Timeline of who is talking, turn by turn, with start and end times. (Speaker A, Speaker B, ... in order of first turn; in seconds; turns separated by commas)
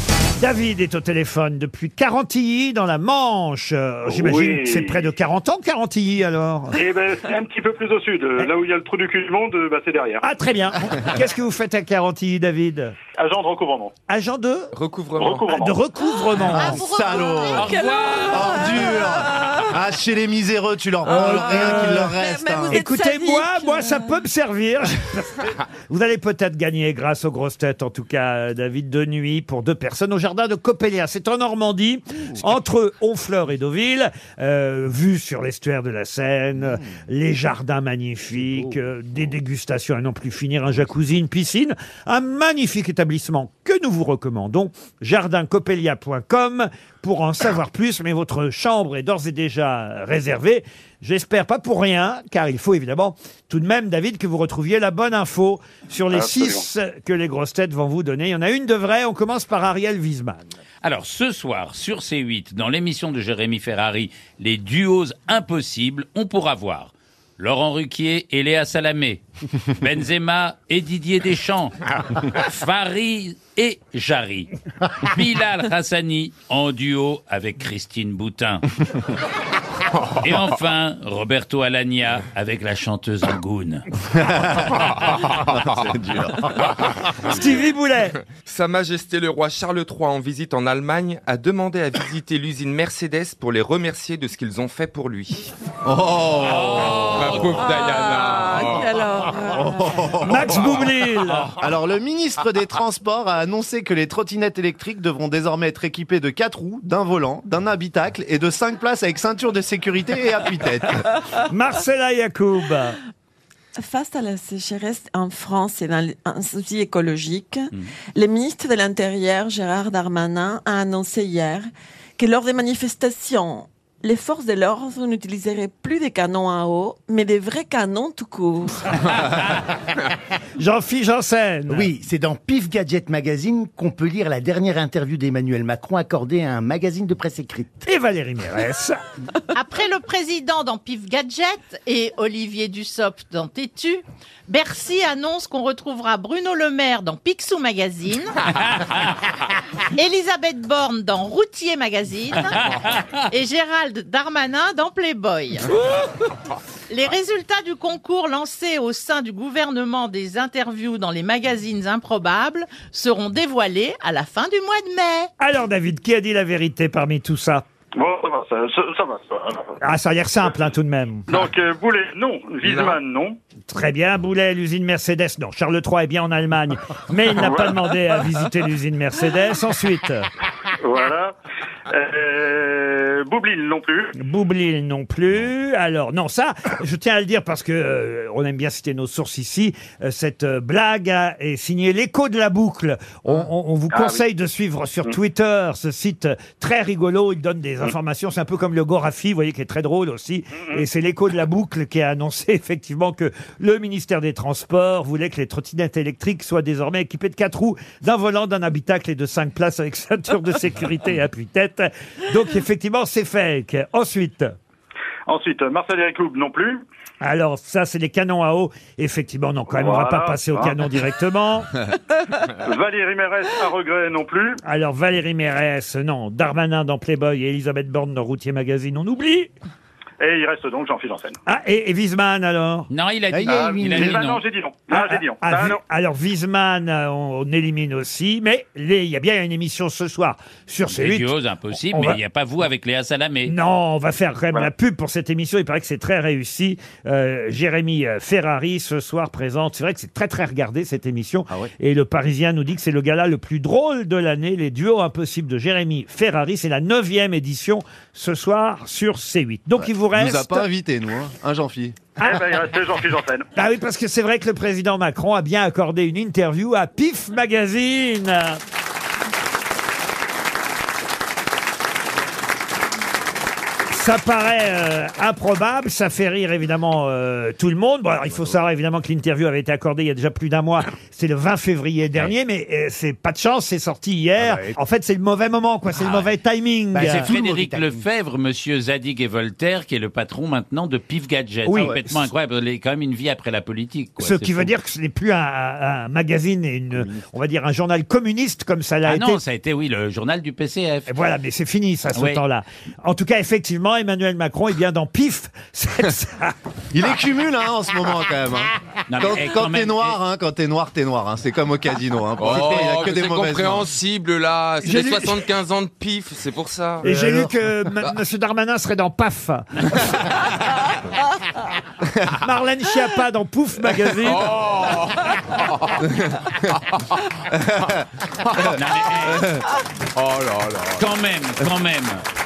Speaker A: 0.4-6.8, Speaker B: 4.1-5.0, Speaker B: 6.7-10.2, Speaker A: 10.2-12.9, Speaker B: 13.2-13.9, Speaker A: 14.1-14.7, Speaker C: 14.7-15.5, Speaker B: 15.2-15.8, Speaker A: 15.5-16.8, Speaker D: 16.4-18.0, Speaker E: 16.5-17.7, Speaker F: 17.5-18.7, Speaker G: 17.8-19.6, Speaker E: 18.3-22.8, Speaker G: 21.0-24.2, Speaker A: 21.1-22.2, Speaker A: 22.7-60.4, Speaker B: 56.1-56.6, Speaker F: 60.8-78.7, Speaker F: 80.2-83.8, Speaker E: 84.1-84.8, Speaker E: 85.4-86.5, Speaker A: 87.3-88.2, Speaker C: 88.4-95.5, Speaker E: 95.8-97.4, Speaker F: 96.4-97.4, Speaker C: 96.9-98.9, Speaker G: 97.5-100.1, Speaker E: 99.5-100.8, Speaker A: 100.2-101.5, Speaker E: 101.6-111.1, Speaker A: 111.3-113.0, Speaker G: 113.8-121.6, Speaker G: 122.2-128.8, Speaker A: 130.6-131.9, Speaker H: 131.7-137.8, Speaker A: 137.8-139.0, Speaker D: 139.5-148.3, Speaker F: 148.6-149.3, Speaker D: 149.9-155.7, Speaker F: 152.7-153.0, Speaker D: 156.9-165.3, Speaker A: 165.4-167.6, Speaker B: 167.9-169.7, Speaker A: 169.8-171.4, Speaker B: 171.3-173.4, Speaker C: 172.7-172.9, Speaker A: 173.7-180.3, Speaker B: 177.3-177.8, Speaker B: 180.8-181.3, Speaker B: 181.9-184.1, Speaker A: 184.2-214.5, Speaker B: 193.9-194.2, Speaker B: 215.3-216.8, Speaker A: 217.2-221.8, Speaker B: 219.7-220.8, Speaker B: 222.6-224.6, Speaker A: 224.6-229.5, Speaker B: 230.2-231.4, Speaker A: 231.4-232.9, Speaker F: 232.9-234.4, Speaker E: 233.3-234.1, Speaker B: 233.4-235.8, Speaker A: 234.9-242.2, Speaker F: 240.8-243.5, Speaker A: 243.4-260.7, Speaker E: 259.8-261.9, Speaker A: 262.2-262.5, Speaker B: 262.2-263.4, Speaker A: 263.6-268.6, Speaker A: 273.9-287.3, Speaker E: 284.4-284.7, Speaker F: 285.9-286.3, Speaker E: 286.9-288.0, Speaker F: 286.9-294.7, Speaker A: 291.6-292.3, Speaker E: 291.7-292.0, Speaker A: 294.2-299.4, Speaker F: 299.1-301.1, Speaker A: 301.1-306.5, Speaker F: 302.1-302.4, Speaker E: 306.9-313.9, Speaker F: 309.1-310.2, Speaker C: 312.4-317.1, Speaker A: 314.8-315.4, Speaker A: 317.0-320.4, Speaker E: 317.0-317.5, Speaker A: 322.4-324.5, Speaker C: 324.3-325.2, Speaker F: 328.6-329.6, Speaker C: 330.4-330.9, Speaker F: 331.0-332.2